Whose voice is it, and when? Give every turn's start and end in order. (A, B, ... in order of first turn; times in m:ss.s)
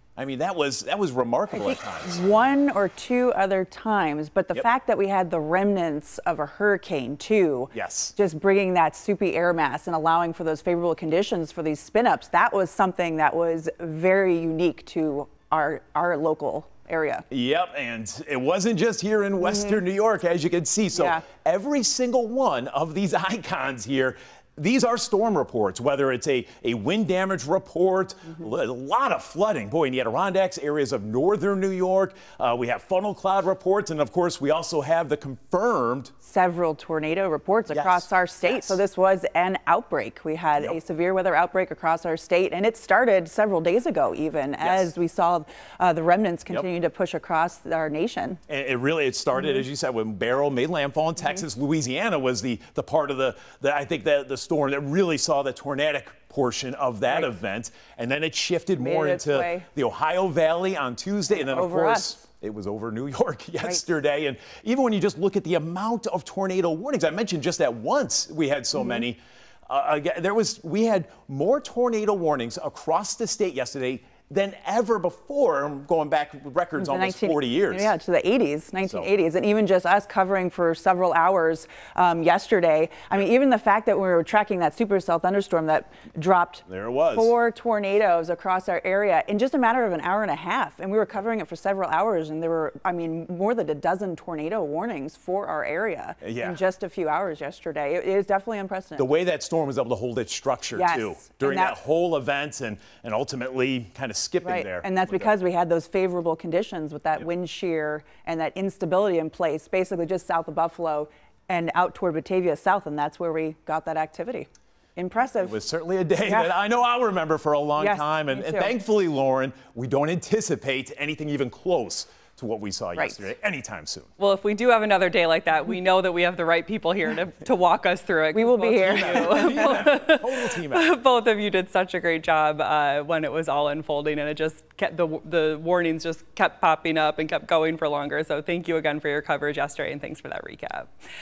0:00.2-0:02.5 A
0:01.5-0:17.2 B
0:07.7-0:08.2 A
0:17.3-0:36.1 A
0:19.4-0:19.8 B
0:21.0-0:21.3 B
0:36.2-0:48.4 B
0:37.7-0:38.8 A
0:44.6-0:44.9 A
0:48.5-1:18.0 A
0:58.8-0:59.7 B
1:01.3-1:02.2 B
1:16.8-1:39.1 B
1:18.8-1:19.1 A
1:26.7-1:27.4 A
1:36.2-1:36.6 A
1:39.0-1:45.3 A
1:40.7-1:41.8 B
1:44.4-1:55.6 B
1:55.4-2:04.1 A
1:56.2-1:56.6 B
1:57.8-1:58.8 B
2:03.0-2:03.3 B
2:04.2-2:20.9 C
2:08.3-2:09.9 B
2:08.8-2:11.0 A